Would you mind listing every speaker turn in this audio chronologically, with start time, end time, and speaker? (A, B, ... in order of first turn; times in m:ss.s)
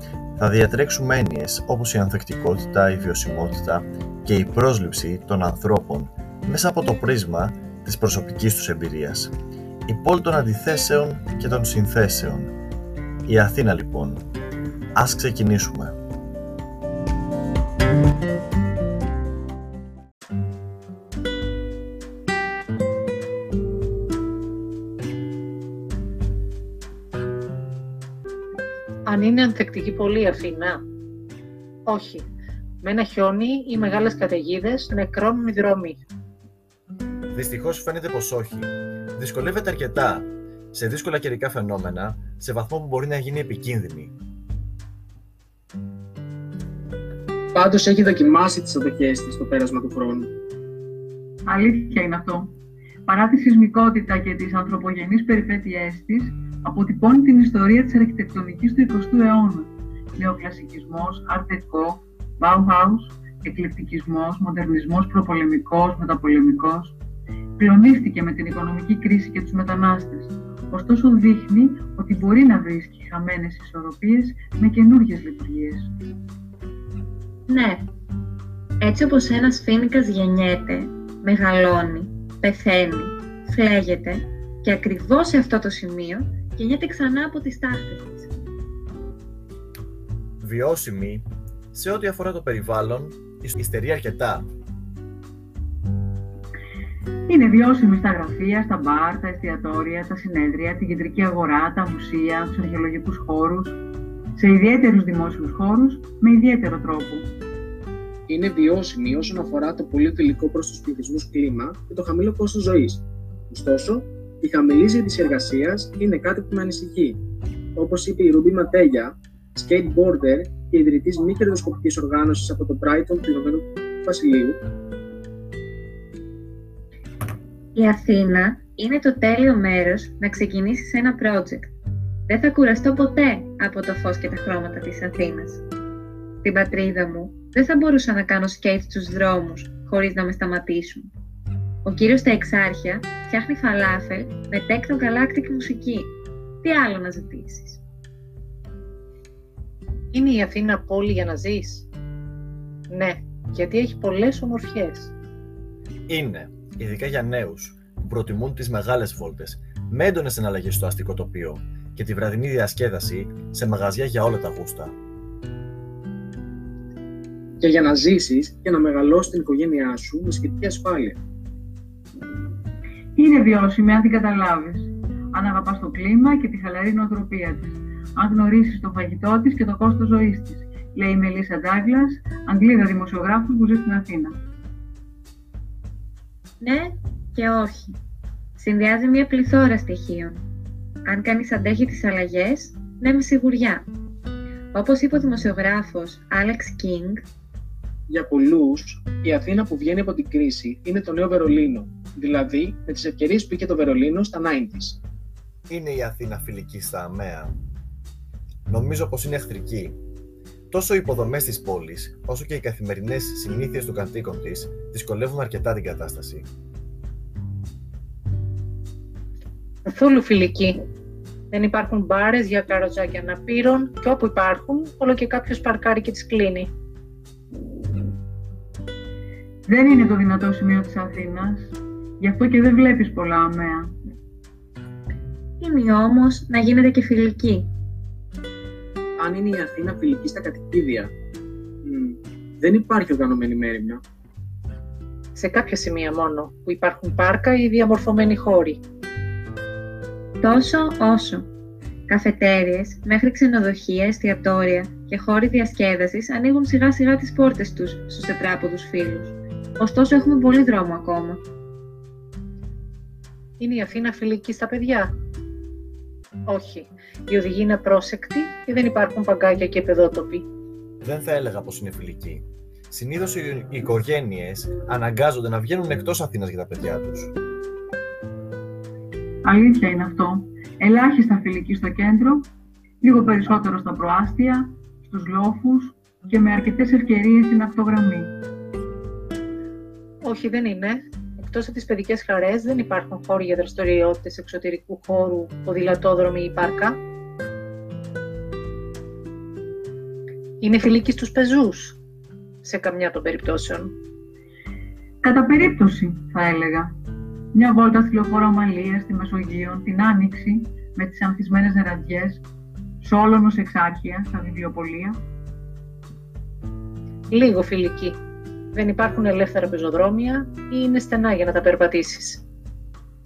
0:00.4-0:09.3 A
0:09.9-0:12.6 A
0:13.2-0:14.2 A
0:15.0-0:16.0 A
0:29.1-0:30.8 B
0:31.9-0:32.3 B
0:32.8-0:36.0 B
0:37.3-0:44.1 A
0:47.5-0:50.3 C
0:51.4-1:07.0 D
1:07.6-1:15.9 D
1:17.5-1:17.9 E
1:18.8-1:28.3 E
1:30.4-1:34.5 A
1:37.3-1:43.8 D
1:44.3-1:47.3 D
1:48.3-1:57.2 C
1:57.8-2:04.6 C
2:07.7-2:11.7 E
2:12.3-2:15.6 E
2:16.4-2:21.1 E
2:21.8-2:27.8 E
2:30.1-2:31.9 B
2:32.9-2:35.1 B
2:36.1-2:44.9 A
2:47.6-2:51.2 C
2:53.2-3:04.4 D
3:06.6-3:08.0 E
3:08.6-3:10.4 E
3:11.1-3:13.9 E
3:14.7-3:17.2 E
3:18.1-3:25.0 C
3:25.7-3:27.6 A
3:28.7-3:30.0 A
3:30.7-3:36.5 A
3:39.9-3:40.8 B
3:41.5-3:46.7 B
3:49.6-3:53.9 D
3:55.6-3:57.7 E
3:59.2-4:01.1 C
4:01.8-4:04.0 C
4:05.4-4:08.8 B
4:10.4-4:11.5 E
4:12.1-4:21.4 E
4:23.6-4:25.1 B
4:26.5-4:30.5 B
4:31.0-4:37.3 A
4:39.4-4:42.5 D
4:43.0-4:48.3 D
4:50.2-4:57.0 B
5:00.6-5:02.0 B
5:02.6-5:03.9 B
5:05.2-5:06.9 D
5:07.5-5:12.4 D
5:13.0-5:15.2 D
5:17.3-5:18.2 B
5:18.7-5:22.4 B